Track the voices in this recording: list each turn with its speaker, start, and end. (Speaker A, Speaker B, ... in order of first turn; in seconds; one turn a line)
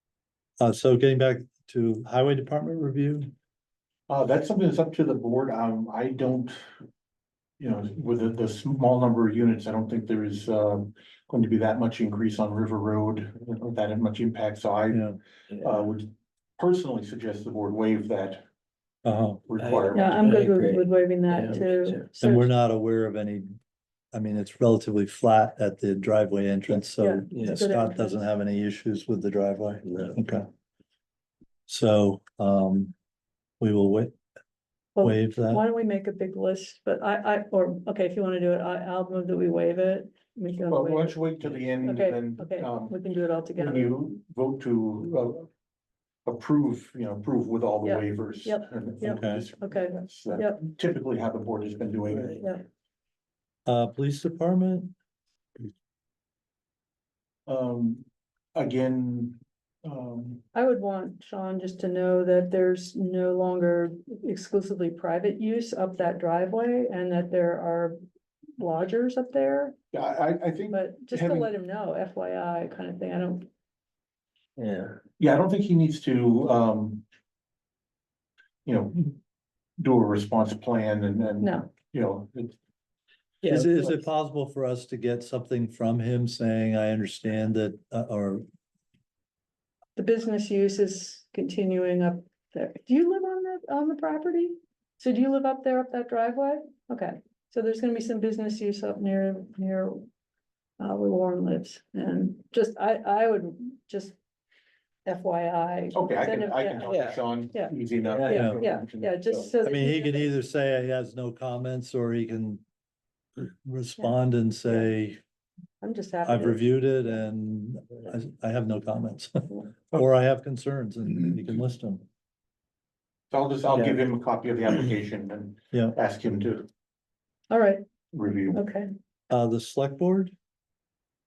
Speaker A: 0.6-3.3
Speaker B: 4.1-6.7
Speaker B: 7.6-15.1
Speaker A: 14.9-15.2
Speaker B: 15.6-18.4
Speaker A: 19.0-19.4
Speaker B: 19.5-20.2
Speaker C: 19.6-22.1
Speaker D: 19.9-22.5
Speaker A: 22.2-23.6
Speaker A: 24.1-30.5
Speaker D: 27.0-28.3
Speaker C: 27.3-27.6
Speaker C: 29.8-30.2
Speaker A: 31.7-32.9
Speaker A: 33.6-34.1
Speaker D: 35.0-44.0
Speaker A: 35.0-35.6
Speaker B: 40.7-43.0
Speaker B: 43.5-45.5
Speaker B: 46.2-52.4
Speaker D: 47.8-50.6
Speaker A: 49.0-49.4
Speaker C: 52.1-52.4
Speaker D: 52.4-52.6
Speaker A: 53.6-54.9
Speaker B: 57.5-60.4
Speaker D: 60.5-68.0
Speaker D: 68.6-69.8
Speaker B: 69.9-71.5
Speaker D: 70.7-73.5
Speaker C: 74.6-75.1
Speaker B: 75.2-77.0
Speaker B: 78.6-79.2
Speaker B: 79.8-82.6
Speaker D: 81.4-81.7
Speaker C: 83.4-83.9
Speaker A: 83.5-88.4
Speaker D: 90.0-100.1
Speaker D: 100.8-104.2
Speaker D: 105.0-107.7
Speaker B: 105.9-109.5
Speaker C: 106.8-107.2
Speaker C: 108.0-108.8
Speaker D: 108.3-110.3
Speaker A: 108.3-108.6
Speaker A: 109.6-112.6
Speaker A: 113.4-115.2
Speaker D: 115.8-117.2
Speaker A: 116.2-122.0
Speaker B: 123.3-126.7
Speaker D: 127.5-127.8
Speaker B: 128.1-128.6
Speaker D: 128.5-128.9
Speaker A: 129.3-130.3